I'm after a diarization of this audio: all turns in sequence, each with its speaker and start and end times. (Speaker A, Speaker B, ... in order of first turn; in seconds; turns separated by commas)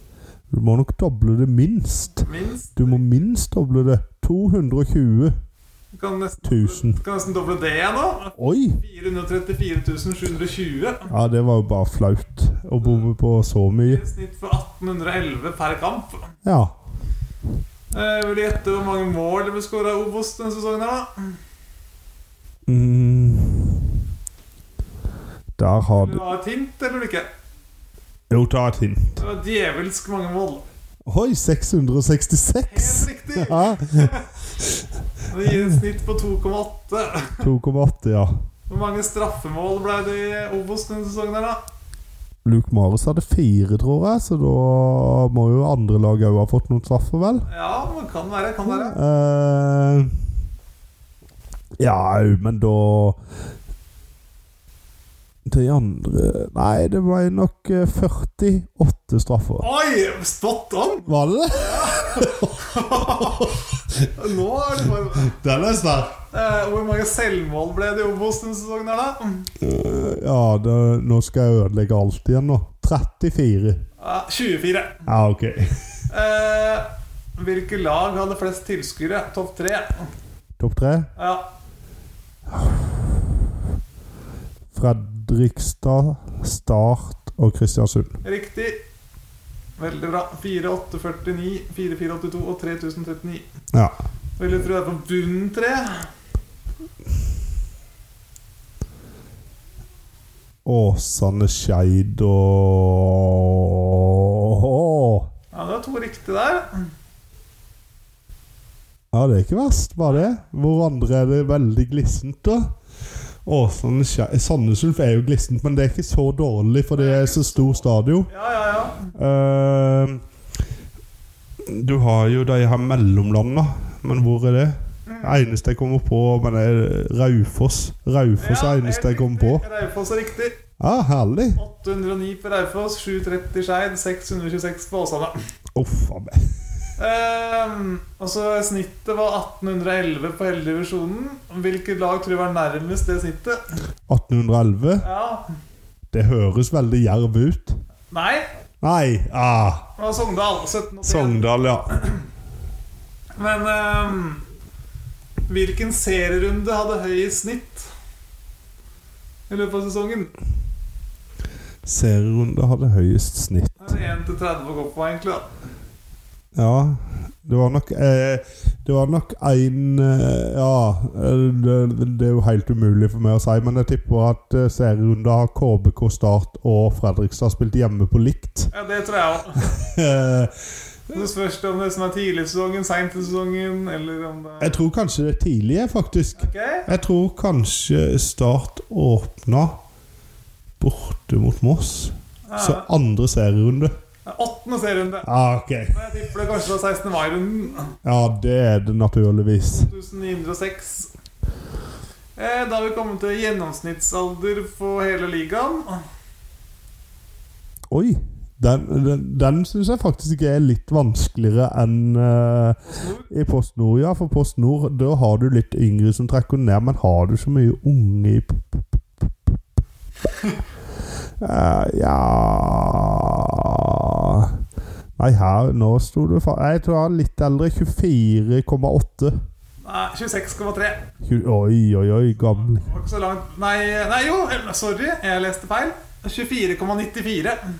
Speaker A: 0.5-2.2, Speaker B: 2.2-3.2, Speaker A: 2.8-5.3, Speaker B: 5.9-11.1, Speaker A: 6.4-7.0, Speaker A: 8.4-8.8, Speaker A: 11.1-14.0, Speaker B: 12.8-13.1, Speaker B: 13.8-16.3, Speaker A: 16.4-16.8, Speaker B: 17.9-21.4, Speaker A: 22.7-23.9, Speaker A: 25.6-26.2, Speaker B: 25.9-27.3, Speaker A: 28.3-29.2, Speaker B: 29.2-30.6, Speaker A: 31.1-34.1, Speaker B: 32.7-34.3, Speaker B: 35.3-37.4, Speaker A: 37.4-38.3, Speaker B: 38.7-41.6, Speaker A: 42.4-47.5, Speaker B: 47.5-49.0, Speaker A: 48.6-50.1, Speaker A: 51.8-53.2, Speaker A: 55.5-59.7, Speaker B: 59.6-63.5, Speaker A: 61.1-63.5, Speaker B: 64.1-65.4, Speaker A: 65.3-66.2, Speaker B: 66.3-69.5, Speaker A: 69.6-73.8, Speaker B: 74.0-75.0, Speaker A: 75.1-75.7, Speaker B: 76.1-80.1, Speaker A: 80.6-81.1, Speaker B: 81.2-81.5, Speaker A: 82.5-83.1, Speaker A: 84.7-88.2, Speaker B: 88.2-88.8, Speaker B: 89.8-93.4, Speaker B: 94.4-96.1, Speaker A: 100.6-105.3, Speaker B: 105.5-106.9, Speaker A: 109.1-112.7, Speaker A: 113.5-118.3, Speaker B: 116.9-119.1, Speaker A: 119.1-120.2, Speaker A: 121.7-129.6, Speaker B: 125.1-125.4, Speaker B: 128.4-130.6, Speaker A: 130.8-131.6, Speaker B: 131.5-135.3, Speaker A: 135.7-136.4, Speaker B: 137.0-143.7, Speaker A: 144.1-145.0, Speaker B: 145.0-145.5, Speaker A: 146.1-147.8, Speaker B: 148.1-148.4, Speaker A: 148.8-149.8, Speaker B: 150.0-151.7, Speaker A: 151.0-152.0, Speaker B: 153.4-154.4, Speaker B: 155.5-157.9, Speaker B: 159.5-160.3, Speaker A: 161.8-163.9, Speaker B: 163.8-165.5, Speaker A: 166.5-178.7, Speaker B: 178.7-179.7, Speaker A: 179.6-180.5, Speaker B: 181.1-184.8, Speaker A: 184.6-189.8, Speaker B: 186.4-186.9, Speaker A: 190.8-193.9, Speaker B: 192.5-192.8, Speaker B: 194.2-195.3, Speaker A: 195.2-196.0, Speaker B: 195.9-198.0, Speaker A: 198.0-199.9, Speaker B: 199.7-201.1, Speaker B: 202.3-206.0, Speaker A: 207.9-219.5, Speaker B: 212.8-213.3, Speaker B: 220.3-220.6, Speaker A: 221.4-224.6, Speaker A: 225.2-229.3, Speaker B: 229.8-231.1, Speaker A: 231.2-232.8, Speaker B: 232.4-237.6